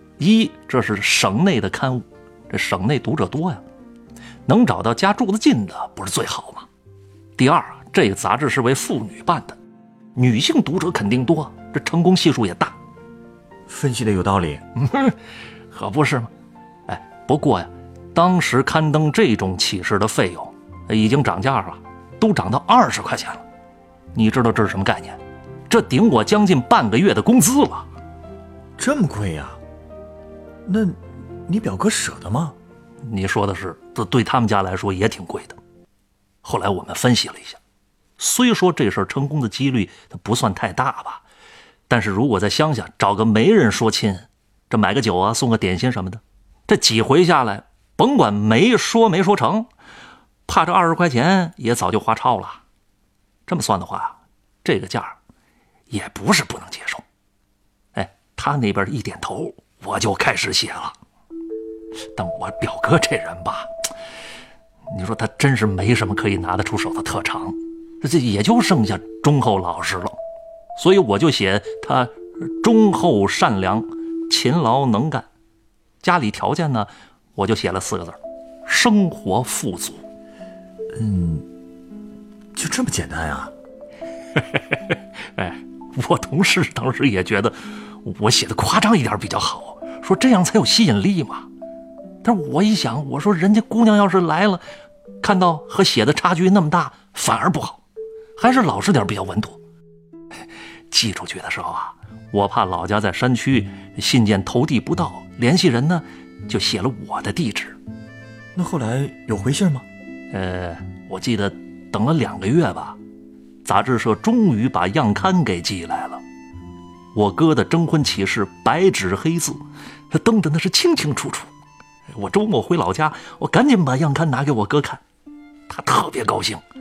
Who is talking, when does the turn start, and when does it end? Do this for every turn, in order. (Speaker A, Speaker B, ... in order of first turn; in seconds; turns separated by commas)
Speaker A: 0.2-3.6, Speaker A: 4.5-6.7, Speaker A: 7.4-9.6, Speaker A: 10.2-12.7, Speaker B: 13.7-14.6, Speaker A: 14.8-15.2, Speaker A: 15.7-16.3, Speaker A: 16.9-23.4, Speaker A: 24.1-27.9, Speaker B: 28.8-29.6, Speaker B: 30.6-32.5, Speaker A: 33.0-35.6, Speaker A: 36.4-37.6, Speaker A: 38.2-41.2, Speaker A: 41.9-49.7, Speaker A: 50.5-52.6, Speaker A: 53.5-55.2, Speaker A: 55.9-57.0, Speaker A: 57.9-61.0, Speaker A: 62.1-63.7, Speaker A: 64.9-70.2, Speaker A: 70.8-75.3, Speaker A: 76.0-80.0, Speaker B: 80.9-81.5, Speaker B: 82.5-83.5, Speaker A: 84.4-91.5, Speaker A: 92.2-94.6, Speaker A: 95.2-97.8, Speaker A: 98.3-99.6, Speaker A: 100.9-107.8, Speaker B: 108.5-109.8, Speaker A: 110.3-113.0, Speaker A: 113.6-116.2, Speaker A: 117.1-121.5, Speaker A: 122.1-125.0, Speaker A: 125.7-126.6